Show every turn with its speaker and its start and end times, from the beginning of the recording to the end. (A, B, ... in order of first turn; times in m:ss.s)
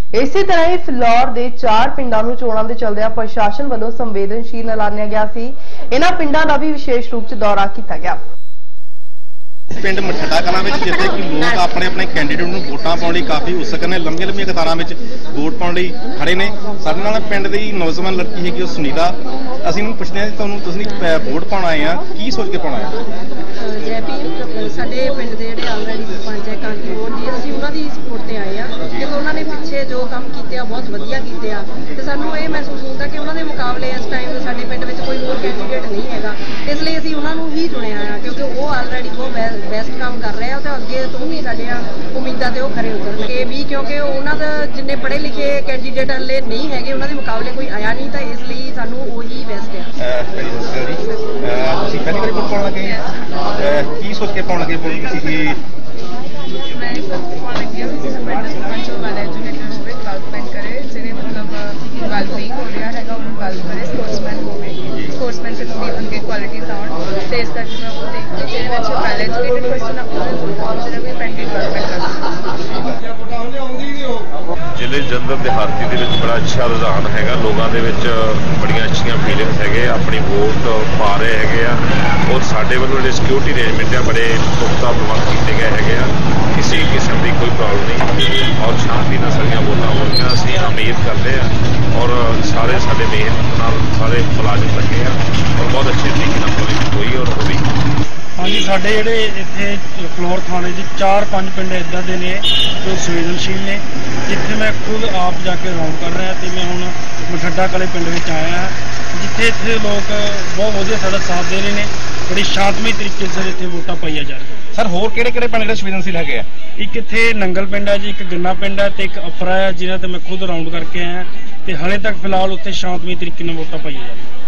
0:00.1-0:08.2 A
0:09.7-0:23.0 B
0:23.6-0:49.9 C
0:50.0-0:53.0 B
0:52.8-0:53.3 D
0:53.6-0:55.6 B
0:56.7-1:12.2 D
1:14.7-1:37.7 E
1:38.4-1:54.6 F
1:54.7-1:56.5 B
1:56.8-2:04.4 F